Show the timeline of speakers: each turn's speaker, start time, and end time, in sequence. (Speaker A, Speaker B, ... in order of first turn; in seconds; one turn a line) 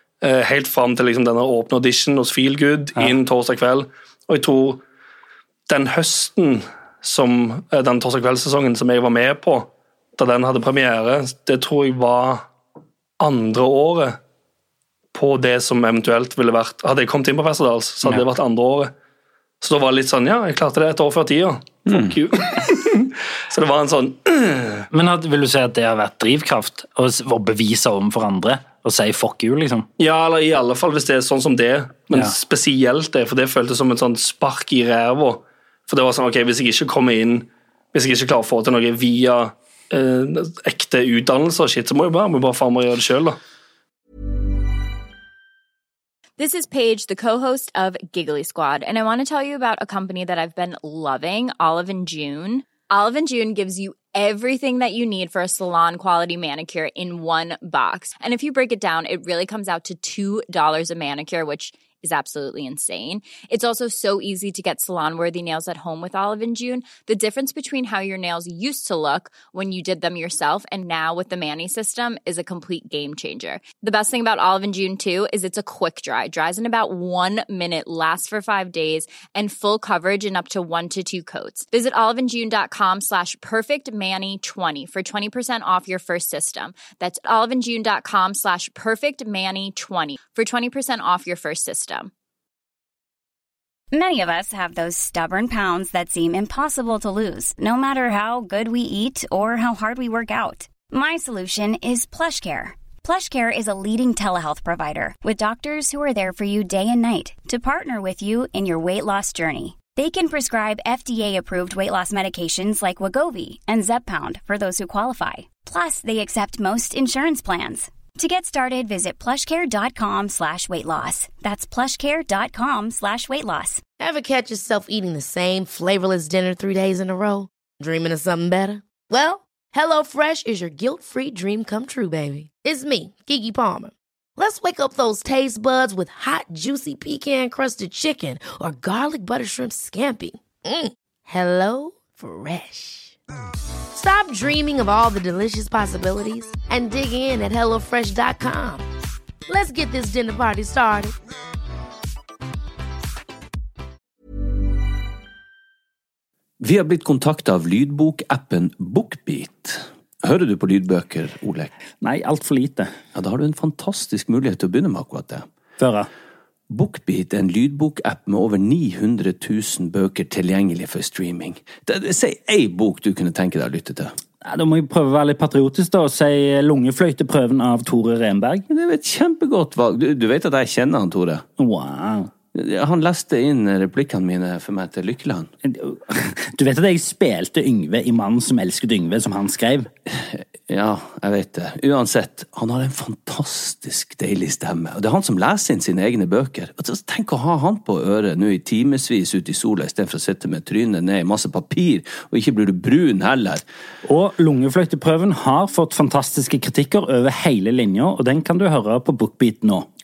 Speaker A: 0.2-4.8
Speaker A: 5.7-12.4
Speaker A: 13.2-14.2
Speaker A: 15.1-18.9
Speaker A: 19.6-24.9
Speaker B: 21.9-22.1
Speaker C: 24.9-29.9
Speaker A: 30.0-43.4
Speaker D: 46.4-92.1
Speaker E: 93.9-123.8
Speaker F: 124.0-143.2
Speaker F: 143.9-148.9
Speaker F: 149.5-151.2
Speaker B: 156.6-161.7
Speaker C: 162.0-162.9
Speaker B: 163.1-165.4
Speaker C: 165.8-166.1
Speaker B: 166.7-174.1
Speaker C: 174.4-178.6
Speaker B: 178.7-181.4
Speaker C: 181.6-182.3
Speaker B: 182.5-185.5
Speaker C: 185.6-189.9
Speaker B: 190.1-203.6
Speaker C: 204.1-209.9